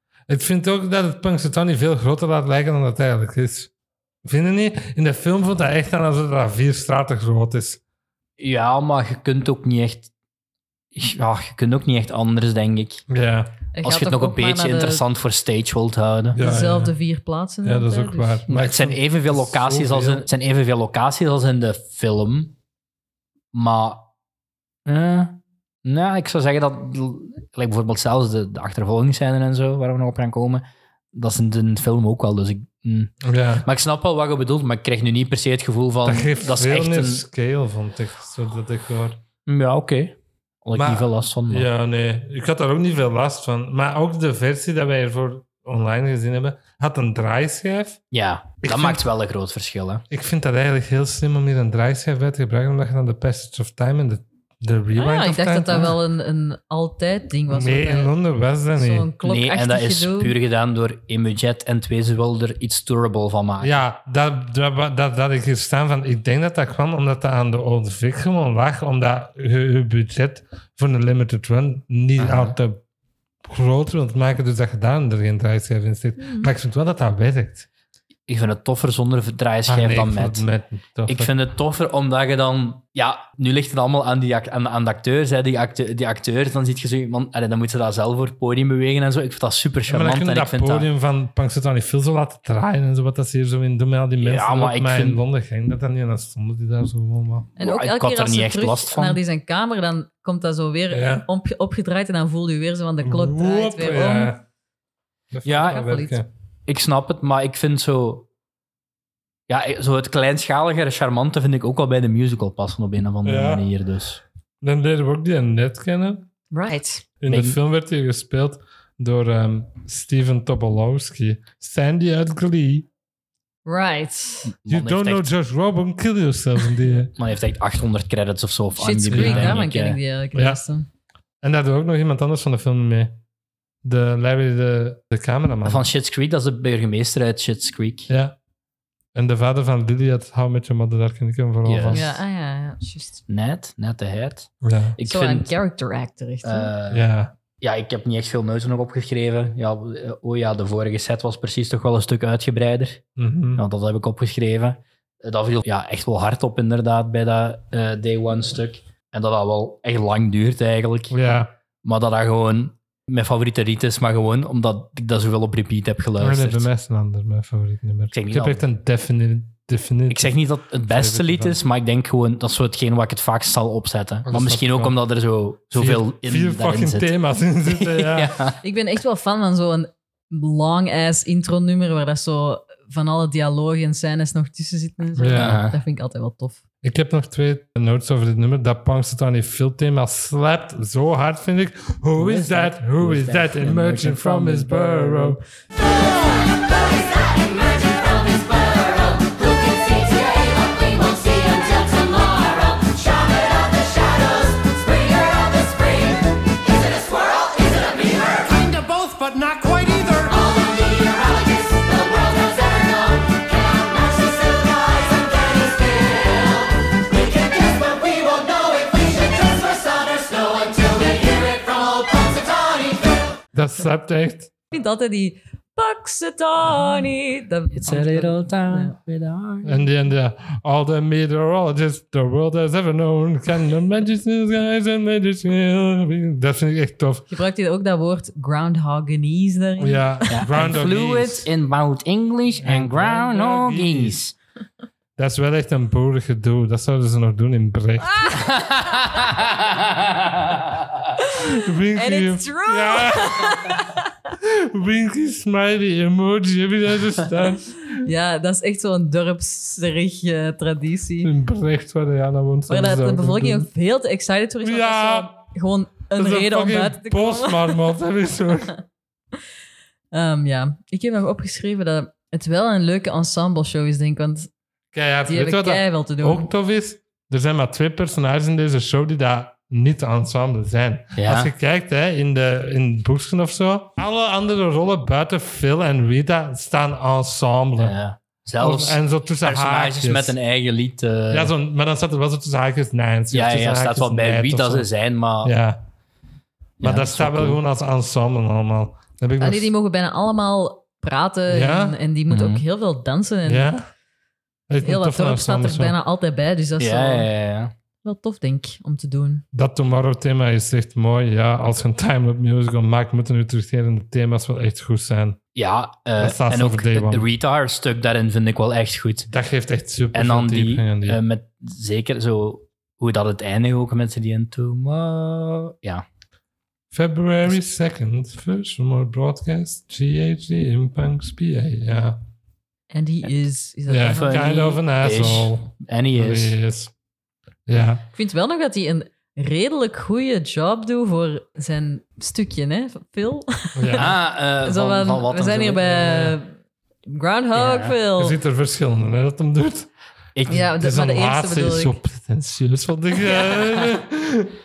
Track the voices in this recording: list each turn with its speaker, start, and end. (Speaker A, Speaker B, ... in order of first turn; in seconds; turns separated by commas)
Speaker A: 0.3-3.7, Speaker A: 4.2-7.8, Speaker B: 8.4-10.1, Speaker B: 10.9-13.1, Speaker A: 13.1-13.5, Speaker C: 13.7-15.0, Speaker B: 13.8-16.4, Speaker A: 16.3-16.9, Speaker C: 16.4-18.4, Speaker A: 17.6-20.3, Speaker B: 18.5-22.5, Speaker B: 23.5-24.1, Speaker B: 24.9-37.2, Speaker A: 33.2-33.6, Speaker A: 36.0-39.2, Speaker B: 39.5-41.7, Speaker A: 40.7-48.0, Speaker B: 48.1-50.0, Speaker A: 48.6-49.0, Speaker A: 50.1-56.0, Speaker C: 54.9-58.1, Speaker A: 57.5-59.1, Speaker C: 58.7-60.3, Speaker B: 59.2-63.8, Speaker A: 63.6-72.8, Speaker B: 72.2-72.5, Speaker A: 73.4-77.7, Speaker C: 76.2-76.5, Speaker B: 78.3-80.5, Speaker A: 79.7-81.3, Speaker B: 81.0-90.9, Speaker A: 89.9-97.5, Speaker B: 94.2-95.2, Speaker C: 97.6-104.3, Speaker B: 97.6-99.2, Speaker A: 100.9-101.3, Speaker A: 103.0-104.4, Speaker A: 105.3-106.3, Speaker B: 105.5-105.8, Speaker C: 105.5-106.2, Speaker B: 106.7-108.3, Speaker B: 109.5-114.2, Speaker A: 113.2-113.7, Speaker A: 114.6-116.3, Speaker C: 116.5-117.0, Speaker A: 117.2-122.9, Speaker B: 117.3-117.6, Speaker C: 123.7-124.5, Speaker B: 124.5-125.3, Speaker A: 124.7-127.1, Speaker B: 127.2-130.0, Speaker C: 128.8-130.9, Speaker A: 129.1-129.6, Speaker A: 130.3-130.6, Speaker A: 131.4-133.2, Speaker A: 133.8-135.8, Speaker B: 135.6-138.1, Speaker A: 138.1-138.3, Speaker A: 139.1-142.1, Speaker B: 141.6-142.1, Speaker C: 141.9-143.2, Speaker B: 143.3-145.5, Speaker A: 144.6-145.0, Speaker C: 145.0-146.7, Speaker B: 146.4-147.1, Speaker A: 146.9-147.3, Speaker B: 147.6-153.0, Speaker A: 153.2-153.6, Speaker B: 153.6-161.2, Speaker A: 161.1-161.5, Speaker B: 161.8-166.7, Speaker A: 166.2-170.3, Speaker B: 168.1-168.7, Speaker B: 170.1-177.1, Speaker A: 170.8-171.6, Speaker A: 174.3-174.9, Speaker A: 175.8-178.3, Speaker B: 177.7-178.6, Speaker C: 178.6-186.6, Speaker A: 185.2-185.6, Speaker B: 185.3-185.8, Speaker A: 186.8-195.4, Speaker B: 192.2-195.4, Speaker D: 208.3-210.3, Speaker A: 223.5-224.5, Speaker C: 224.7-228.9, Speaker B: 227.8-229.8, Speaker A: 229.6-237.2, Speaker C: 237.3-240.2, Speaker A: 239.8-241.5, Speaker B: 240.3-244.3, Speaker A: 242.6-244.2, Speaker A: 245.2-248.4, Speaker C: 248.1-249.2, Speaker B: 248.4-250.9, Speaker C: 251.2-254.1, Speaker A: 251.4-253.8, Speaker A: 254.4-257.9, Speaker C: 258.0-261.3, Speaker A: 261.2-263.7, Speaker C: 262.7-267.8, Speaker A: 264.6-265.4, Speaker A: 266.1-268.7, Speaker C: 270.1-274.5, Speaker A: 274.9-287.9, Speaker C: 275.3-276.5, Speaker B: 281.2-281.5, Speaker B: 287.8-291.5, Speaker A: 288.6-290.3, Speaker A: 291.3-294.9, Speaker B: 293.3-295.5, Speaker A: 295.4-295.8, Speaker B: 296.8-297.6, Speaker A: 296.8-299.7, Speaker C: 299.4-303.7, Speaker A: 301.5-301.9, Speaker B: 302.3-302.6, Speaker A: 303.5-303.9, Speaker A: 304.7-305.9, Speaker C: 304.8-307.3, Speaker B: 306.8-307.7, Speaker C: 308.0-309.4, Speaker A: 309.5-315.4, Speaker B: 315.5-319.3, Speaker A: 316.2-317.2, Speaker A: 319.3-321.2, Speaker B: 320.1-326.0, Speaker A: 326.9-332.2, Speaker C: 332.9-334.7, Speaker A: 333.9-336.9, Speaker B: 334.0-336.5, Speaker A: 337.7-338.0, Speaker C: 338.1-344.0, Speaker A: 343.8-344.1, Speaker B: 344.0-345.9, Speaker C: 344.6-346.5, Speaker A: 345.9-346.4, Speaker C: 347.1-348.4, Speaker B: 347.5-347.9, Speaker A: 348.2-349.9, Speaker B: 350.4-350.6, Speaker A: 350.5-354.5, Speaker C: 350.5-351.9